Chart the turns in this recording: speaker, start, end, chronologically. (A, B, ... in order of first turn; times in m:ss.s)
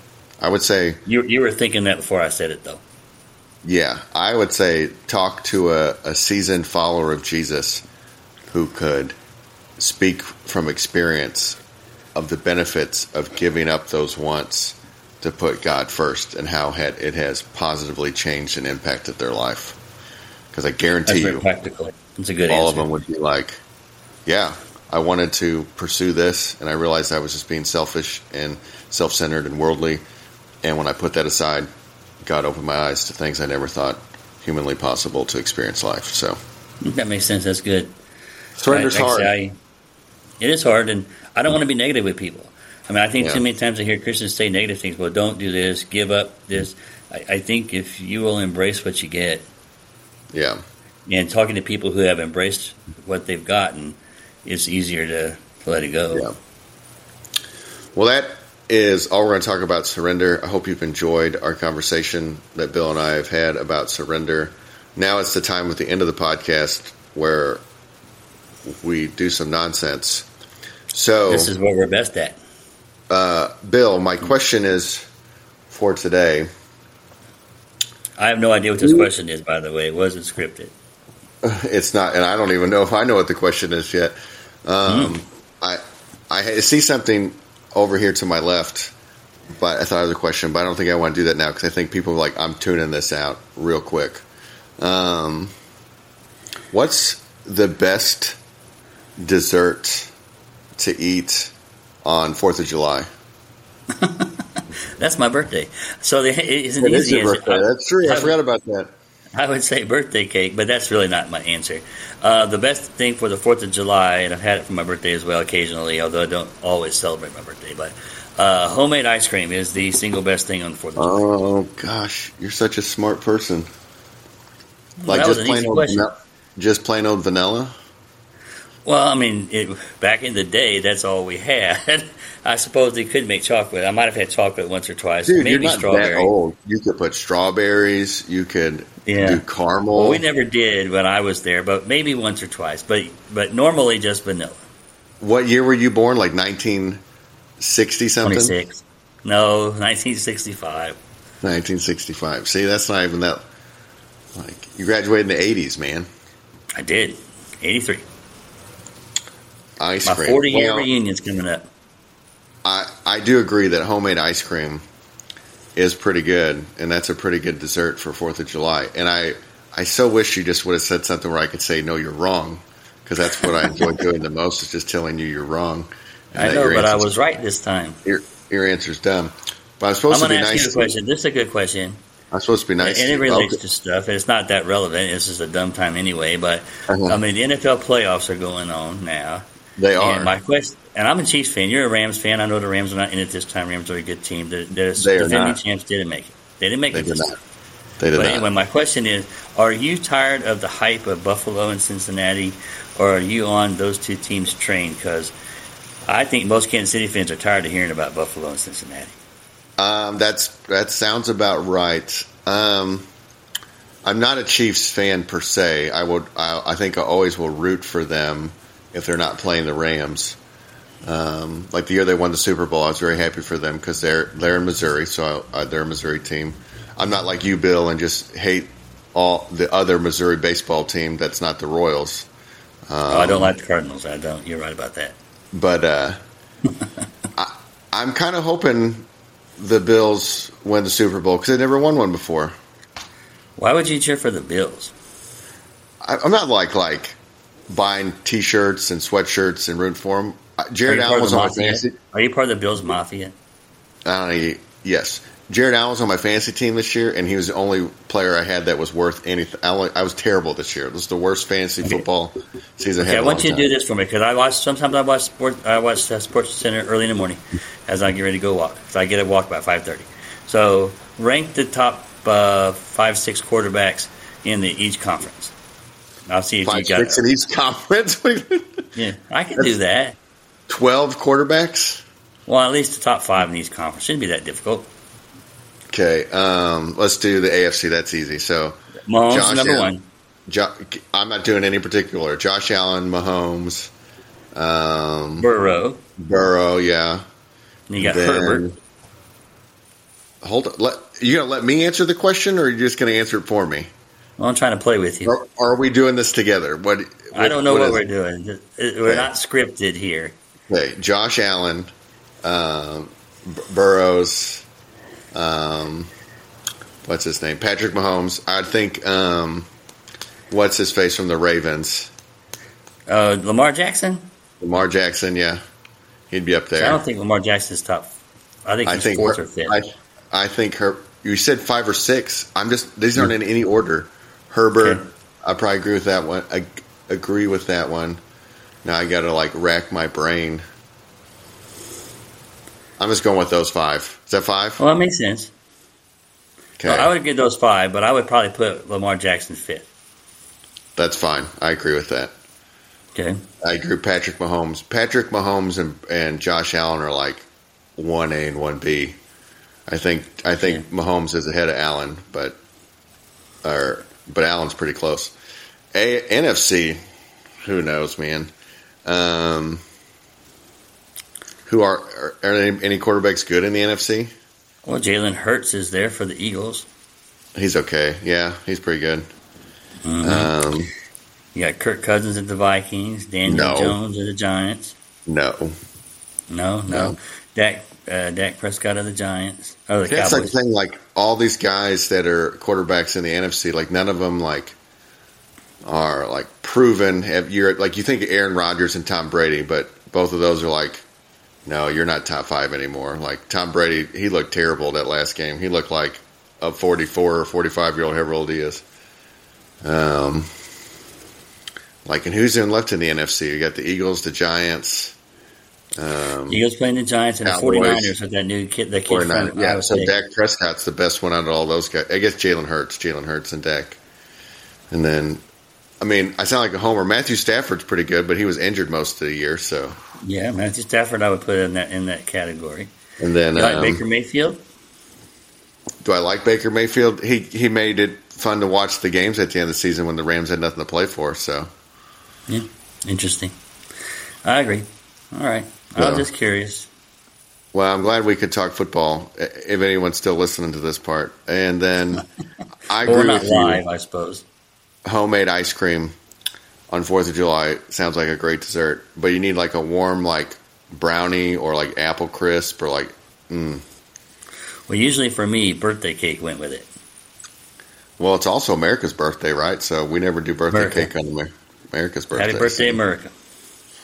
0:00.4-0:01.0 A
0:01.1-0:02.8 B
0:03.6-0:07.8 A
0:08.5-0:09.1 A
0:09.8-0:11.6 A
0:12.1-0:19.8 A
0:20.5-0:21.4 A
0:21.1-0:22.9 B
0:22.5-0:23.6 A
0:24.2-0:30.0 A
0:30.6-0:31.7 A
0:32.2-0:36.4 A
0:36.8-0:38.0 B
0:38.6-0:39.3 A
0:38.7-0:39.6 B
0:40.4-0:49.5 B
0:50.3-0:50.6 A
0:51.1-0:56.3 B
0:57.9-1:07.6 A
1:08.6-1:10.3 A
1:10.9-1:11.5 A
1:11.3-1:12.4 B
1:13.1-1:15.1 A
1:15.7-1:16.5 A
1:18.2-1:20.7 B
1:21.4-1:28.9 A
1:24.9-1:25.2 B
1:29.5-1:34.2 A
1:34.8-1:35.5 A
1:36.7-1:38.4 A
1:39.2-1:40.1 A
1:40.8-1:43.1 A
1:44.0-1:48.4 B
1:46.8-1:48.9 A
1:49.4-2:01.2 B
2:01.0-2:03.7 A
2:05.0-2:06.1 B
2:05.1-2:07.7 A
2:08.8-2:16.3 B
2:15.3-2:20.2 A
2:19.1-2:24.6 B
2:25.2-2:27.0 A
2:27.6-2:28.6 A
2:28.2-2:31.0 B
2:31.4-2:33.4 A
2:34.3-2:36.1 A
2:36.8-2:38.0 B
2:39.8-2:40.9 A
2:40.0-2:41.7 B
2:42.6-2:44.8 A
2:45.8-2:57.1 A
2:53.4-2:53.9 B
2:56.4-2:58.0 B
2:58.0-3:01.0 A
3:00.1-3:02.0 B
3:02.3-3:03.6 A
3:02.8-3:09.4 B
3:06.9-3:07.2 A
3:09.8-3:10.4 A
3:10.0-3:17.3 B
3:15.0-3:15.6 A
3:16.9-3:17.3 A
3:18.0-3:18.4 A
3:18.1-3:25.3 B
3:26.1-3:29.2 B
3:29.8-3:33.1 A
3:34.0-3:40.4 A
3:41.0-3:52.3 A
3:52.9-3:53.5 A
3:53.1-3:55.2 B
3:55.5-3:56.2 A
3:57.4-3:59.1 A
3:59.6-4:02.5 A
4:03.6-4:04.9 B
4:06.0-4:07.2 A
4:07.7-4:12.0 A
4:10.9-4:13.3 B
4:14.0-4:23.7 A
4:23.0-4:35.5 B
4:36.3-4:37.2 B
4:36.6-4:38.8 A
4:39.0-4:40.2 B
4:40.7-4:42.0 A
4:42.5-4:44.9 B
4:45.9-4:48.8 A
4:49.1-4:50.0 B
4:49.3-4:49.9 A
4:50.5-4:53.9 A
4:54.6-4:55.5 A
4:55.4-4:56.0 B
4:56.2-4:57.2 A
4:57.9-4:58.7 B
4:58.0-4:58.7 A
5:00.4-5:03.9 A
5:04.4-5:05.3 B
5:05.3-5:08.0 A
5:07.3-5:10.3 B
5:10.7-5:11.9 A
5:12.4-5:14.6 A
5:15.3-5:16.1 A
5:17.0-5:19.7 A
5:20.5-5:22.1 A
5:23.1-5:24.3 B
5:24.6-5:25.6 A
5:26.3-5:27.0 A
5:26.8-5:29.8 B
5:28.9-5:38.2 A
5:34.8-5:35.1 B
5:38.8-5:40.6 A
5:43.0-5:44.8 A
5:44.8-5:45.5 B
5:46.8-5:47.1 A
5:46.8-5:49.9 B
5:51.0-5:52.3 A
5:53.1-5:53.4 B
5:53.6-5:57.4 A
5:58.0-5:59.2 A
5:59.9-6:02.6 A
6:03.6-6:05.3 A
6:05.9-6:07.0 A
6:07.6-6:08.5 A
6:09.0-6:09.8 A
6:11.7-6:14.3 A
6:14.8-6:16.9 B
6:17.6-6:19.3 A
6:20.0-6:20.5 B
6:20.2-6:20.9 A
6:21.6-6:25.0 B
6:23.4-6:24.0 A
6:25.3-6:25.8 A
6:26.5-6:30.6 B
6:26.9-6:27.2 A
6:30.1-6:34.8 A
6:35.8-6:41.0 A
6:41.7-6:48.8 A
6:49.8-6:50.5 A
6:52.0-6:55.2 A
6:56.0-6:56.6 A
6:56.5-7:00.1 B
6:57.4-6:58.1 A
6:59.1-7:04.0 A
7:04.9-7:05.4 A
7:06.0-7:10.0 A
7:10.2-7:12.9 B
7:13.2-7:14.0 A
7:13.6-7:14.6 B
7:16.0-7:21.7 A
7:22.5-7:23.5 B
7:24.4-7:26.9 B
7:26.0-7:26.3 A
7:27.7-7:32.2 A
7:32.9-7:33.8 A
7:33.0-7:34.4 B
7:35.0-7:36.1 A
7:36.9-7:43.8 A
7:44.9-7:46.9 B
7:48.2-7:53.0 A
7:50.7-7:51.1 B
7:52.3-7:53.3 B